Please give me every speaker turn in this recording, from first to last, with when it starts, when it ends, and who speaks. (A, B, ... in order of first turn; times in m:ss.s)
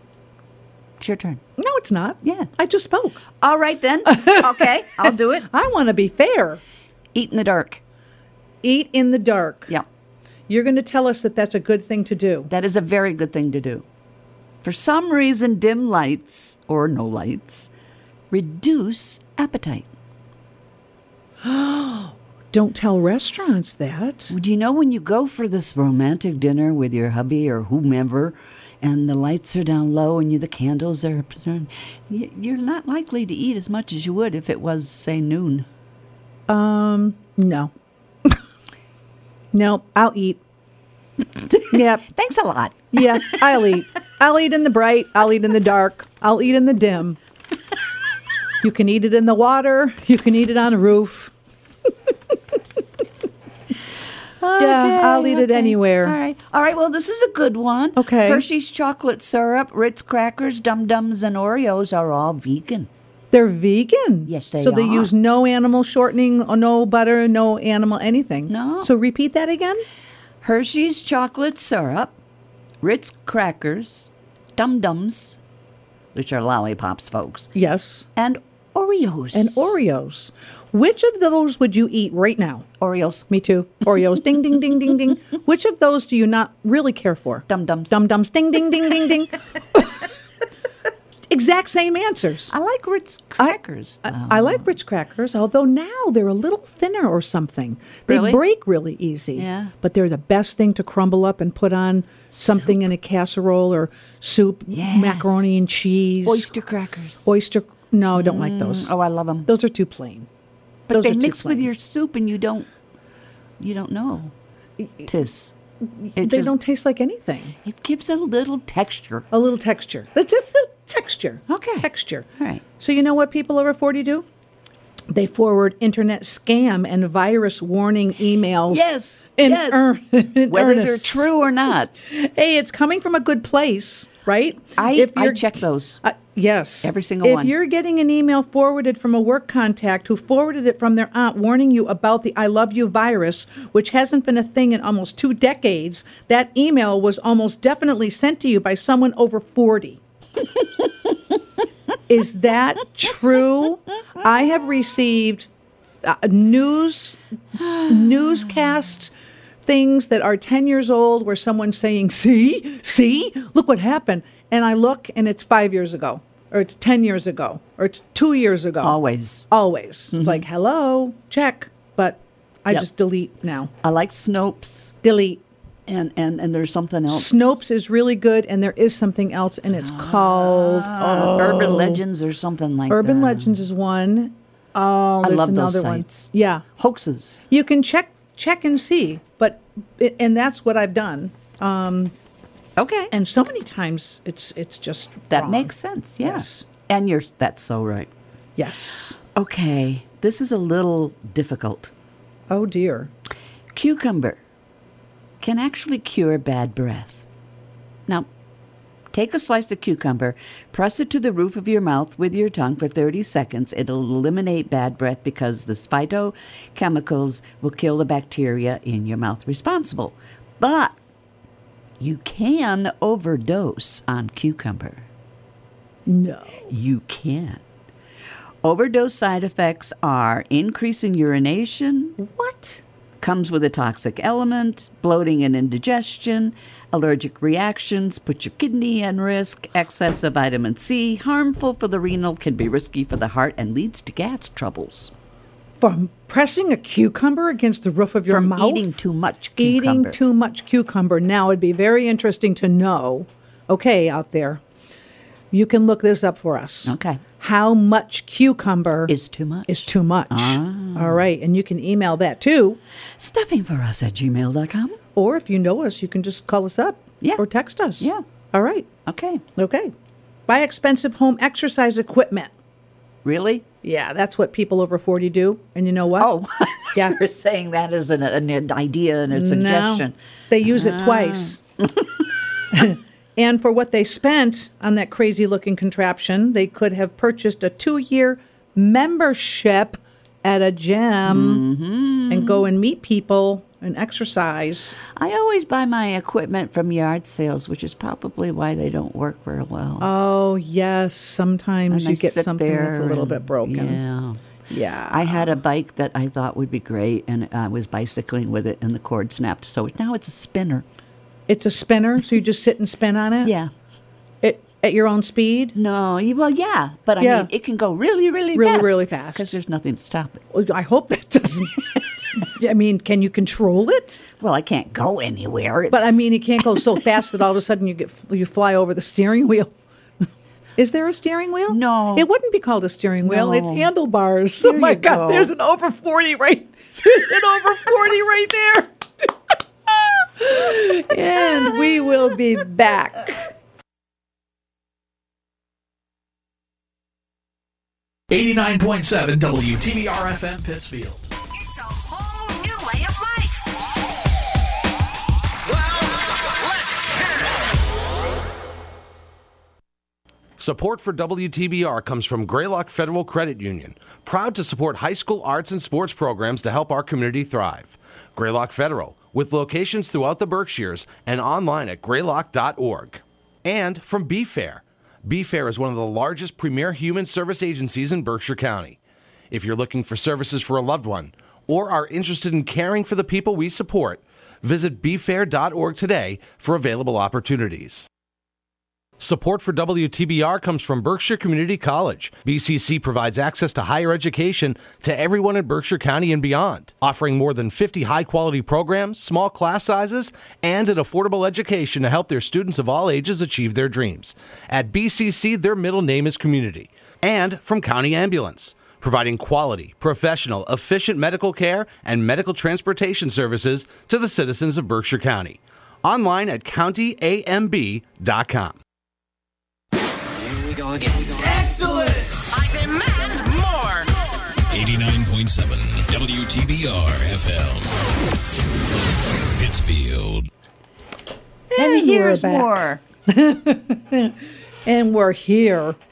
0:01.0-0:01.4 A
0:01.6-0:03.2 B
0:02.2-0:02.5 A
0:03.4-0:05.5 A
0:04.1-0:06.6 B
0:07.1-0:07.8 A
0:08.6-0:09.7 B
0:10.5-0:12.5 B
0:12.5-0:13.8 A
0:14.6-0:17.7 A
0:18.3-0:19.9 A
0:21.4-0:24.3 B
0:24.3-0:35.7 A
0:36.5-0:37.7 B
0:39.5-0:40.4 B
0:41.5-0:43.6 A
0:41.5-0:42.1 B
0:42.9-0:47.2 B
0:48.6-0:51.3 B
0:54.4-1:02.9 A
0:54.6-0:56.2 B
0:58.0-0:58.4 B
1:03.3-1:09.8 B
1:04.3-1:05.1 A
1:08.5-1:08.9 A
1:10.4-1:12.2 A
1:12.8-1:15.4 A
1:16.1-1:17.5 A
1:17.6-1:18.1 B
1:18.2-1:19.8 A
1:19.3-1:22.7 B
1:22.8-1:23.3 A
1:23.3-1:30.1 B
1:27.5-1:28.0 A
1:31.3-1:32.5 B
1:32.5-1:34.7 A
1:33.4-1:46.5 B
1:38.1-1:38.4 A
1:39.4-1:39.7 A
1:42.3-1:42.8 A
1:44.7-1:45.6 A
1:46.2-1:47.3 A
1:47.2-1:48.9 B
1:48.1-1:49.5 A
1:49.5-1:50.3 B
1:50.9-1:52.7 A
1:50.9-1:51.7 B
1:53.6-1:54.3 A
1:54.8-1:55.1 B
1:55.0-1:55.5 A
1:56.0-1:57.6 B
1:56.2-1:56.6 A
1:57.6-1:59.3 A
1:59.3-2:02.3 B
2:01.5-2:01.9 A
2:02.8-2:04.3 B
2:05.1-2:11.2 B
2:08.7-2:09.9 A
2:10.5-2:11.9 A
2:12.0-2:30.0 B
2:14.8-2:16.0 A
2:16.8-2:17.5 A
2:32.1-2:35.5 B
2:36.0-2:37.2 B
2:37.6-2:38.4 A
2:37.9-2:39.1 B
2:39.6-2:49.0 B
2:48.8-2:49.5 A
2:49.5-2:53.7 B
2:50.1-2:50.4 A
2:53.8-2:54.9 A
2:55.0-2:55.4 B
2:55.9-2:57.6 A
2:57.1-3:02.0 B
2:59.7-3:03.6 A
3:02.9-3:06.6 B
3:05.2-3:07.4 A
3:07.5-3:12.2 B
3:12.8-3:13.1 A
3:13.1-3:16.7 B
3:15.3-3:18.1 A
3:18.6-3:19.2 B
3:19.4-3:21.9 A
3:22.5-3:23.1 B
3:23.7-3:24.4 A
3:25.4-3:27.2 A
3:29.1-3:41.0 A
3:42.0-3:45.1 A
3:46.1-3:46.7 B
3:46.7-3:47.6 A
3:48.6-3:52.2 A
3:52.2-3:52.8 B
3:53.2-4:05.1 A
4:05.8-4:09.0 B
4:08.3-4:10.2 A
4:09.6-4:14.6 B
4:15.5-4:19.1 B
4:16.8-4:17.2 A
4:19.1-4:21.2 A
4:19.7-4:22.8 B
4:23.2-4:25.0 A
4:25.2-4:28.9 B
4:29.1-4:29.4 A
4:29.6-4:29.9 B
4:30.5-4:32.5 B
4:33.2-4:33.6 A
4:33.8-4:36.3 B
4:36.2-4:42.1 A
4:36.9-4:37.2 B
4:39.3-4:41.6 B
4:42.7-4:51.6 B
4:51.3-4:52.6 A
4:52.3-4:55.0 B
4:55.2-5:00.1 A
5:00.0-5:04.0 B
5:01.9-5:04.4 A
5:04.7-5:05.6 B
5:05.1-5:10.8 A
5:11.5-5:13.5 B
5:13.4-5:13.7 A
5:14.4-5:15.8 B
5:15.8-5:20.4 A
5:17.2-5:17.5 B
5:18.5-5:19.5 B
5:20.5-5:24.2 B
5:24.4-5:26.3 A
5:25.9-5:29.7 B
5:30.8-5:39.3 B
5:31.7-5:32.3 A
5:33.2-5:33.9 A
5:34.6-5:35.5 A
5:39.9-5:43.5 B
5:48.3-5:51.3 C
5:51.6-5:53.6 D
5:55.7-5:57.7 D
6:00.6-6:19.0 E
6:19.5-6:28.1 E
6:29.2-6:58.8 E
7:00.6-7:01.6 D
7:01.5-7:02.2 B
7:02.5-7:04.2 D
7:04.7-7:08.0 F
7:09.6-7:10.5 F
7:11.7-7:16.0 B
7:11.8-7:13.0 A